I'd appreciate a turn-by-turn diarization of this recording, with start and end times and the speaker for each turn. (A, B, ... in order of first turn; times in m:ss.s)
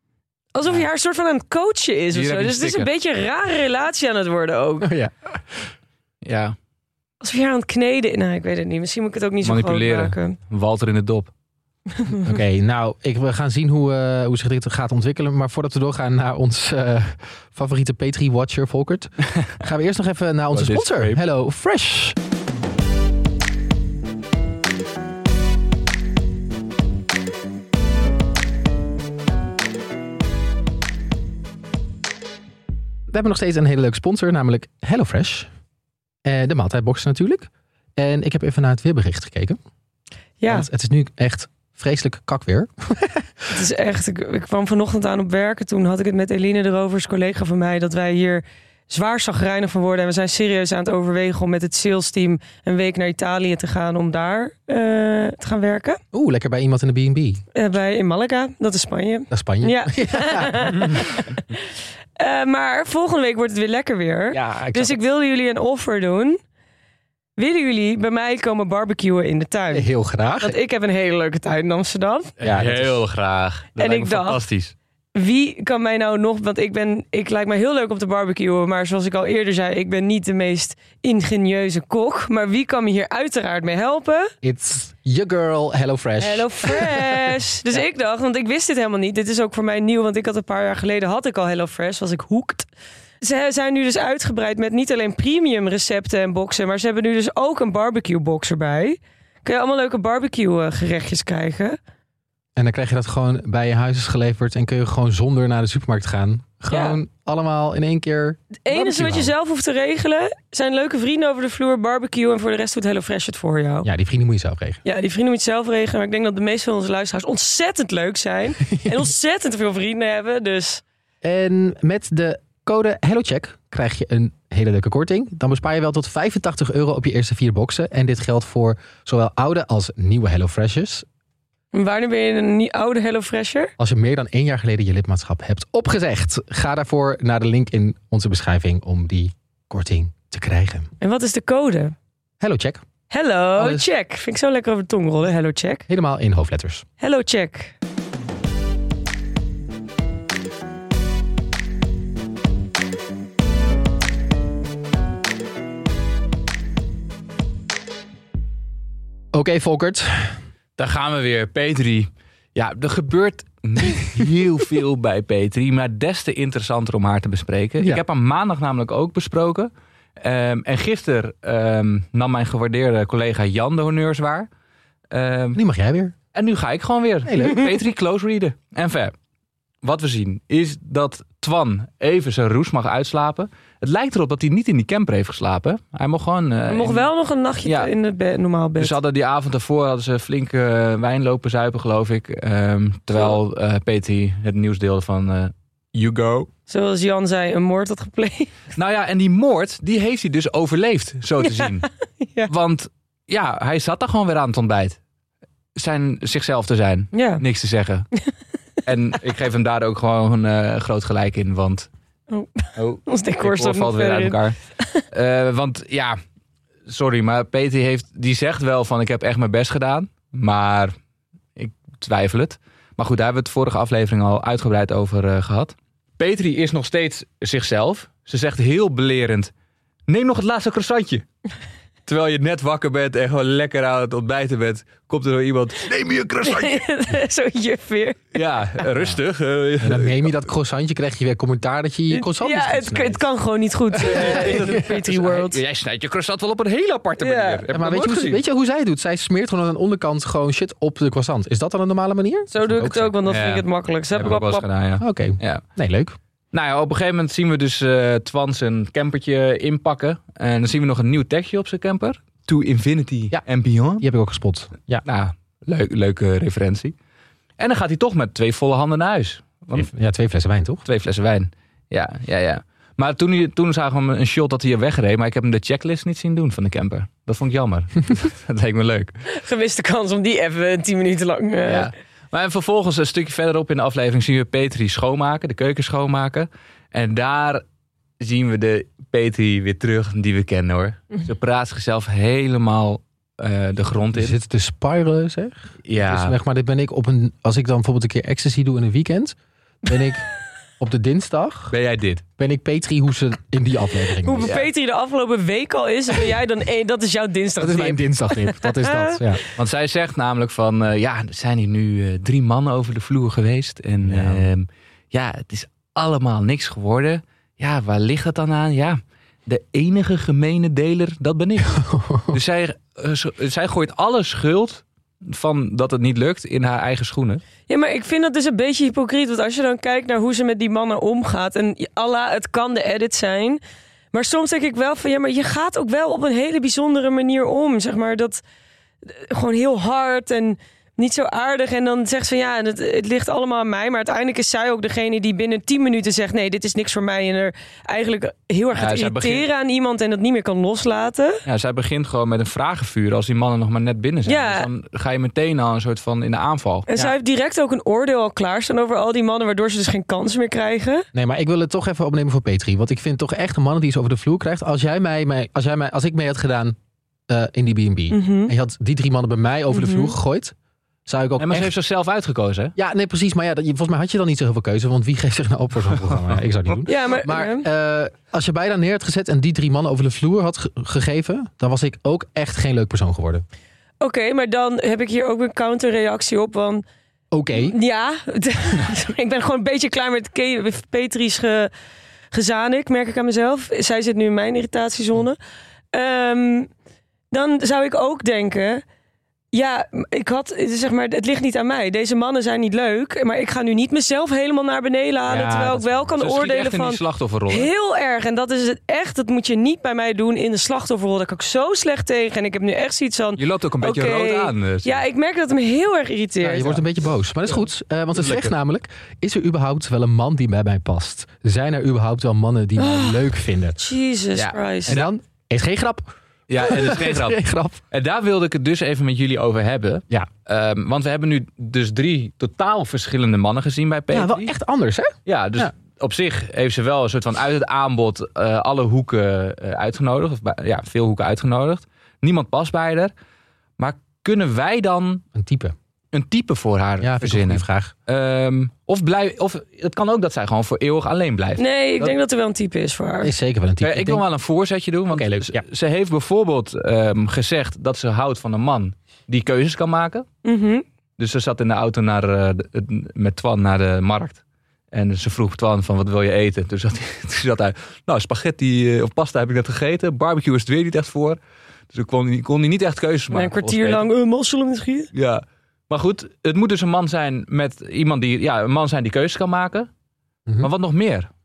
0:00.5-0:04.9 A
0:02.1-0:02.9 B
0:04.8-0:05.7 C
0:06.2-0:06.6 B
0:07.2-0:10.4 A
0:09.4-0:11.3 B
0:12.2-0:22.2 C
0:20.5-0:21.2 B
0:33.1-0:35.5 C
0:36.2-0:39.6 C
0:40.4-0:40.7 A
0:40.4-0:43.3 C
0:43.5-0:56.0 A
0:56.1-0:57.4 C
0:57.5-1:01.3 A
0:59.3-1:01.1 C
1:02.2-1:06.4 A
1:04.3-1:05.0 C
1:07.4-1:12.3 A
1:09.7-1:10.6 C
1:12.4-1:14.7 B
1:12.4-1:13.0 C
1:13.8-1:14.4 A
1:15.1-1:24.3 A
1:24.4-1:27.4 C
1:26.2-1:32.7 A
1:33.2-1:41.8 A
1:42.6-1:49.3 C
1:46.7-1:47.0 A
1:48.6-1:53.9 A
1:53.8-1:54.8 C
1:54.8-2:00.8 A
1:58.7-1:59.0 C
2:01.2-2:11.0 C
2:11.7-2:13.7 A
2:13.8-2:20.9 C
2:21.0-2:21.9 A
2:22.4-2:22.8 C
2:23.1-2:25.8 A
2:23.6-2:23.9 C
2:25.9-2:26.8 C
2:27.0-2:27.7 A
2:39.3-2:40.4 C
2:40.8-2:54.5 B
2:55.1-2:55.6 B
2:55.5-2:56.1 C
2:56.3-2:59.1 B
2:57.3-2:57.7 C
2:59.8-3:07.1 B
3:06.7-3:08.9 A
3:07.6-3:07.9 B
3:08.8-3:16.5 B
3:16.7-3:18.5 A
3:18.8-3:21.9 B
3:22.2-3:22.5 A
3:22.5-3:25.0 B
3:25.8-3:28.1 B
3:27.1-3:27.4 A
3:28.8-3:31.9 B
3:32.3-3:35.0 A
3:32.8-3:34.6 B
3:35.1-3:36.2 B
3:36.8-3:40.9 B
3:41.6-3:49.5 B
3:50.1-3:51.2 B
3:52.0-3:56.8 B
3:56.4-3:58.2 A
3:58.3-4:00.3 B
3:59.8-4:03.2 C
4:02.1-4:05.6 A
4:04.0-4:08.4 B
4:04.1-4:04.9 C
4:07.2-4:07.6 A
4:07.7-4:13.2 C
4:12.5-4:14.6 A
4:13.2-4:15.6 B
4:15.0-4:16.2 C
4:16.5-4:24.0 B
4:24.0-4:25.0 C
4:25.0-4:26.9 B
4:27.6-4:29.9 B
4:29.7-4:30.8 C
4:30.8-4:39.1 B
4:39.3-4:41.9 A
4:41.6-4:47.6 B
4:48.2-4:54.4 B
4:54.1-5:00.2 C
4:55.8-4:56.4 B
5:00.8-5:01.7 C
5:01.7-5:02.2 B
5:02.4-5:04.6 C
5:04.2-5:09.2 A
5:07.6-5:09.4 C
5:09.5-5:27.4 B
5:14.0-5:14.5 C
5:21.7-5:22.4 C
5:27.7-5:33.6 A
5:34.1-5:38.4 A
5:39.1-5:51.4 A
5:48.7-5:49.4 B
5:51.4-5:57.1 B
5:54.2-5:54.7 A
5:56.9-6:01.0 A
6:01.1-6:06.8 C
6:07.3-6:10.5 C
6:08.1-6:08.5 A
6:09.7-6:10.1 A
6:11.0-6:11.7 C
6:11.4-6:12.7 B
6:12.8-6:23.4 C
6:16.8-6:17.7 A
6:24.0-6:26.8 A
6:27.3-6:27.8 C
6:27.5-6:31.7 A
6:32.3-6:35.4 A
6:35.9-6:36.7 A
6:37.3-6:38.8 A
6:39.5-6:56.8 A
6:45.3-6:46.1 C
6:46.2-6:47.7 B
6:53.4-6:55.0 B
6:56.4-7:03.9 C
6:58.2-6:58.5 B
7:02.8-7:03.2 A
7:03.8-7:05.0 A
7:04.4-7:05.1 B
7:04.9-7:07.8 C
7:06.5-7:07.4 B
7:07.9-7:14.5 B
7:14.1-7:15.7 C
7:15.2-7:23.1 B
7:23.8-7:25.2 B
7:25.3-7:25.7 C
7:26.1-7:32.1 B
7:27.0-7:27.9 C
7:31.6-7:33.3 A
7:33.2-7:34.2 C
7:33.8-7:40.3 B
7:35.1-7:35.6 C
7:40.4-7:40.8 A
7:41.2-7:44.4 B
7:44.9-7:51.4 B
7:51.9-7:54.1 B
7:53.3-7:55.1 A
7:55.1-7:59.9 B
8:00.6-8:01.3 B